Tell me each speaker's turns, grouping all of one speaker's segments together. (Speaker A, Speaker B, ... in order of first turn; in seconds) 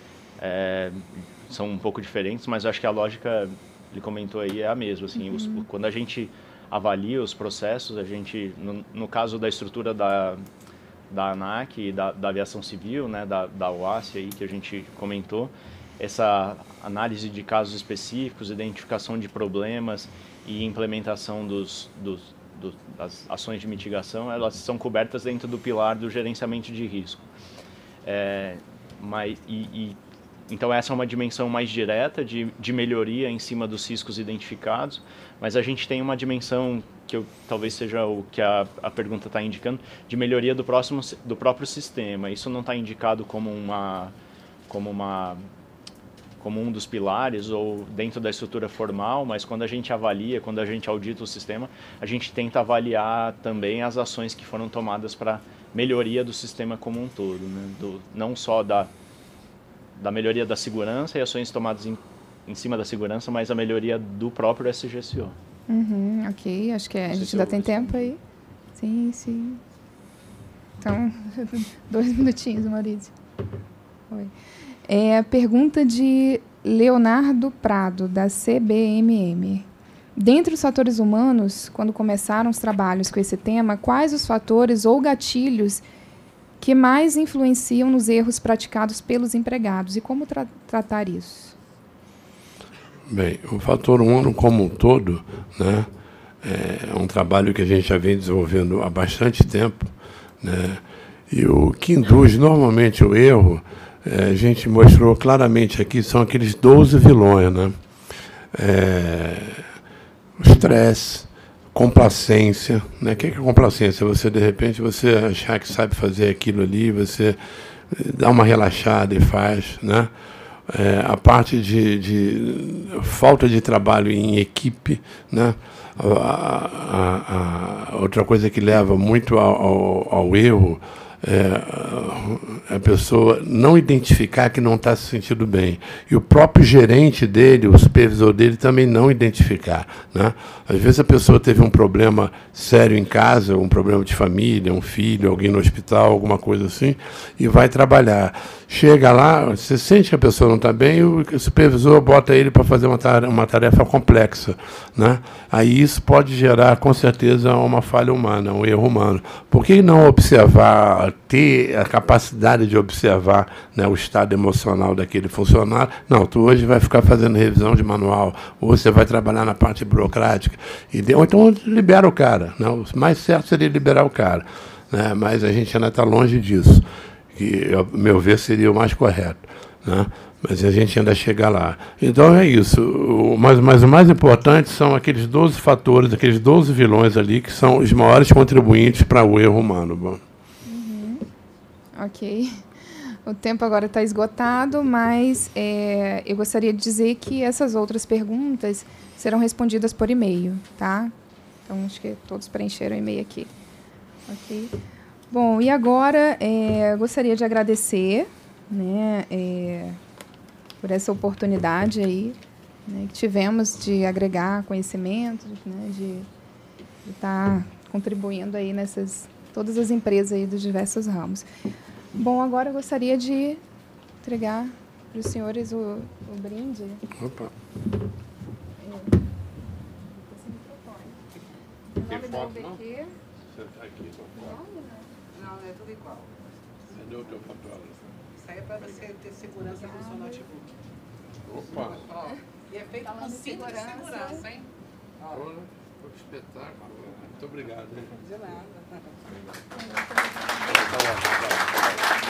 Speaker A: 0.4-10.4, 11.1-27.2, 28.0-30.0, 30.5-44.1, 44.7-45.4, 46.4-58.9, 60.0-65.3, 67.1-68.1
Speaker B: 5.2-5.6, 65.7-68.2, 68.8-69.6, 70.8-73.1, 74.9-85.8, 86.6-91.5, 190.7-191.2, 192.0-192.5, 193.2-201.1, 201.7-203.5, 204.3-204.7, 205.3-210.0, 210.8-216.3, 217.0-221.4, 222.1-223.6, 224.2-227.0, 228.8-229.2, 230.1-231.2, 232.0-233.1, 234.3-235.1, 239.6-240.5, 242.9-244.5, 249.8-250.7
Speaker C: 93.1-95.9, 96.4-107.7, 108.5-109.7, 110.4-117.4, 117.9-120.1, 120.7-190.2, 227.2-227.5, 232.1-232.8, 233.5-234.5, 236.9-238.1, 238.7-239.2, 241.4-242.1, 245.2-248.6, 250.7-251.9
Speaker D: 235.4-236.3, 238.5-240.1, 242.8-243.0